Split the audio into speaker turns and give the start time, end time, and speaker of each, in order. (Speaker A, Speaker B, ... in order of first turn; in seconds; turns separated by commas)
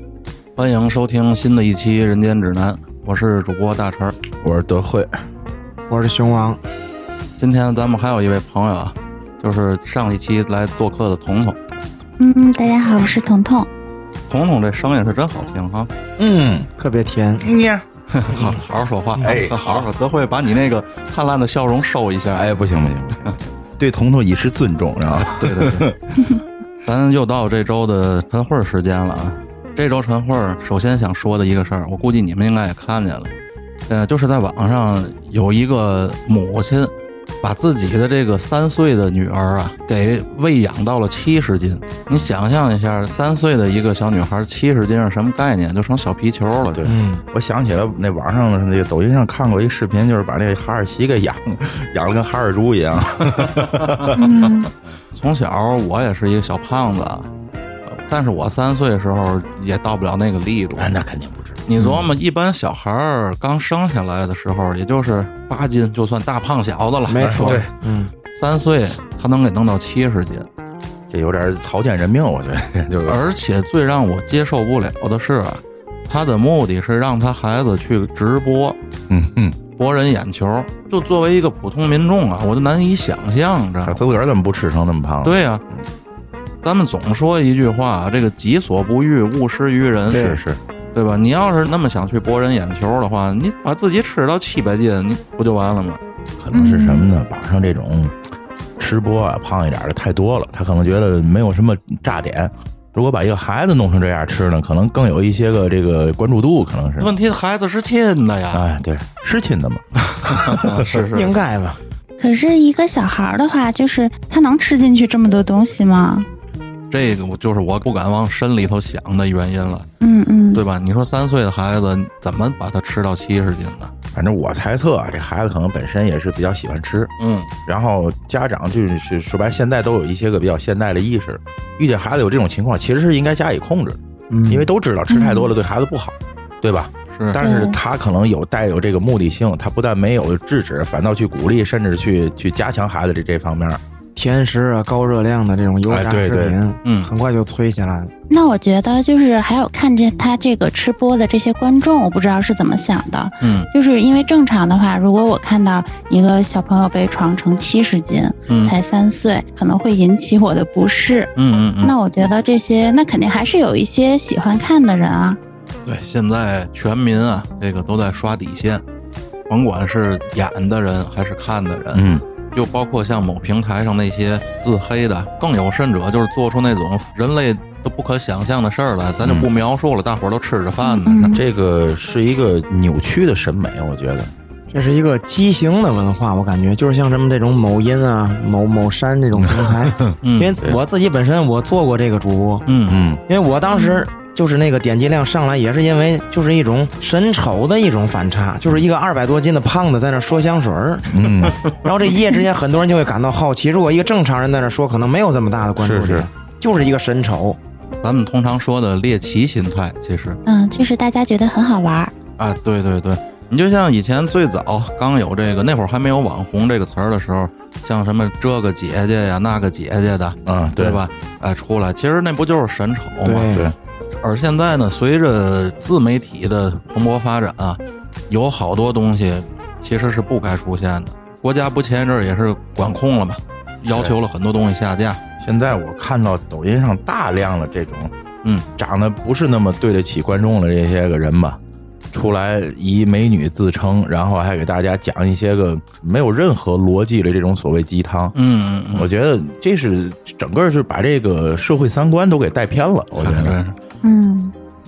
Speaker A: 0.6-4.1, Speaker B: 4.4-5.1, Speaker C: 5.9-6.6, Speaker A: 7.4-11.6, Speaker D: 12.2-13.7, Speaker A: 14.3-15.9, Speaker B: 16.2-16.7, Speaker C: 16.8-17.5, Speaker B: 17.4-17.8, Speaker A: 18.1-22.5, Speaker B: 19.2-19.9, Speaker B: 22.3-25.9, Speaker A: 25.1-25.5, Speaker C: 25.4-25.9, Speaker A: 26.8-33.3, Speaker A: 33.9-46.8, Speaker B: 46.6-54.2, Speaker C: 46.8-47.2, Speaker D: 54.1-54.7, Speaker A: 55.1-57.3, Speaker A: 57.9-61.0, Speaker B: 60.8-62.1, Speaker A: 61.7-67.6, Speaker C: 67.1-68.1, Speaker B: 67.2-67.7, Speaker A: 68.3-70.5, Speaker B: 71.1-73.2, Speaker A: 73.1-78.8, Speaker B: 79.1-79.6, Speaker A: 79.8-84.0, Speaker B: 83.8-85.9, Speaker A: 85.2-85.6, Speaker A: 86.6-90.3, Speaker C: 90.1-90.4, Speaker B: 90.1-90.6, Speaker A: 90.9-96.0, Speaker B: 96.4-98.2, Speaker D: 96.5-97.0, Speaker B: 98.8-107.1, Speaker A: 107.0-108.6, Speaker B: 108.5-111.0, Speaker A: 110.1-111.3, Speaker C: 111.0-111.8, Speaker D: 112.2-116.2, Speaker A: 116.9-119.9, Speaker D: 120.0-120.6, Speaker A: 120.5-123.9, Speaker B: 124.1-127.1, Speaker A: 127.2-127.5, Speaker B: 127.7-143.8, Speaker C: 134.3-134.7, Speaker D: 135.1-135.5, Speaker D: 137.4-137.8, Speaker C: 144.2-148.1, Speaker B: 145.9-146.6, Speaker A: 146.8-147.1, Speaker D: 148.3-161.3, Speaker A: 153.4-153.7, Speaker A: 158.5-158.8, Speaker A: 161.3-161.9, Speaker D: 161.8-165.4, Speaker A: 165.8-168.8, Speaker A: 169.5-181.3, Speaker B: 171.9-172.2, Speaker B: 179.2-179.5, Speaker D: 180.8-181.4, Speaker B: 181.1-184.3, Speaker C: 184.7-192.7, Speaker B: 189.4-190.8, Speaker A: 190.2-190.6, Speaker A: 192.7-193.0, Speaker B: 192.9-193.2, Speaker C: 193.3-207.6, Speaker D: 193.7-194.0, Speaker B: 201.1-201.6, Speaker B: 205.8-206.3, Speaker A: 208.0-210.4, Speaker D: 210.4-212.1, Speaker A: 212.4-223.5, Speaker B: 220.4-221.0, Speaker C: 223.2-223.7, Speaker B: 223.5-223.7, Speaker A: 224.2-227.8, Speaker A: 228.3-235.2, Speaker B: 235.4-238.1, Speaker B: 238.8-241.6, Speaker B: 242.1-248.3, Speaker A: 248.3-249.1, Speaker B: 248.9-253.6, Speaker A: 253.2-253.8, Speaker D: 254.0-254.5